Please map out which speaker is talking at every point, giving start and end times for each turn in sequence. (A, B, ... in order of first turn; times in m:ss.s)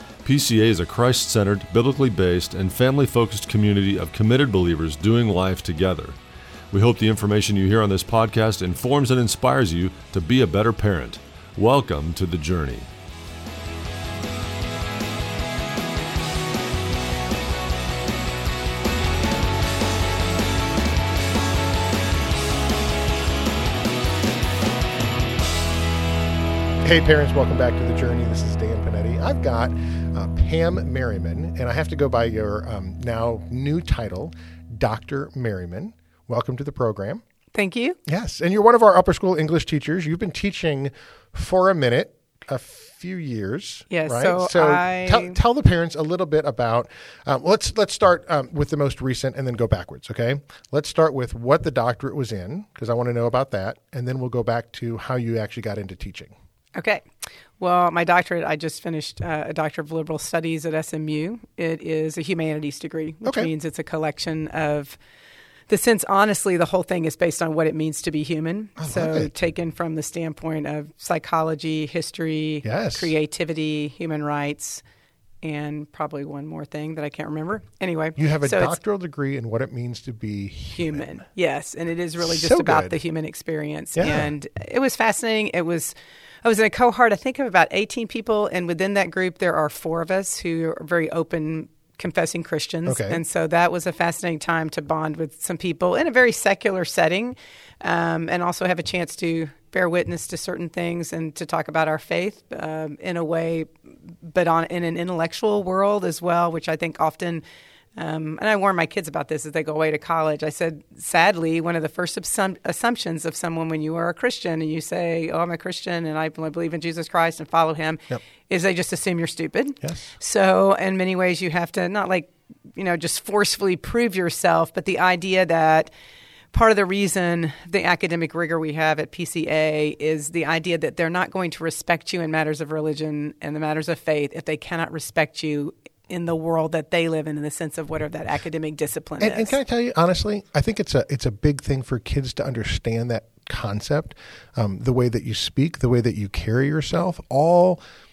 0:00.2-0:06.2 A
0:06.7-0:12.9 A
0:26.8-0:37.2 B
0:37.5-0:38.0 C
0:38.1-0:56.3 B
0:43.9-0:45.4 C
0:56.7-0:57.1 C
0:57.6-1:05.0 C
1:03.2-1:03.5 B
1:05.7-1:14.8 C
1:08.8-1:09.3 B
1:12.6-1:13.1 B
1:15.4-1:18.7 C
1:18.2-1:21.1 B
1:20.7-1:43.7 C
1:22.2-1:23.0 B
1:24.0-1:24.3 B
1:32.8-1:33.2 B
1:44.2-1:47.4 C
1:48.0-2:05.9 C
2:06.5-2:19.6 C
2:19.2-2:27.8 B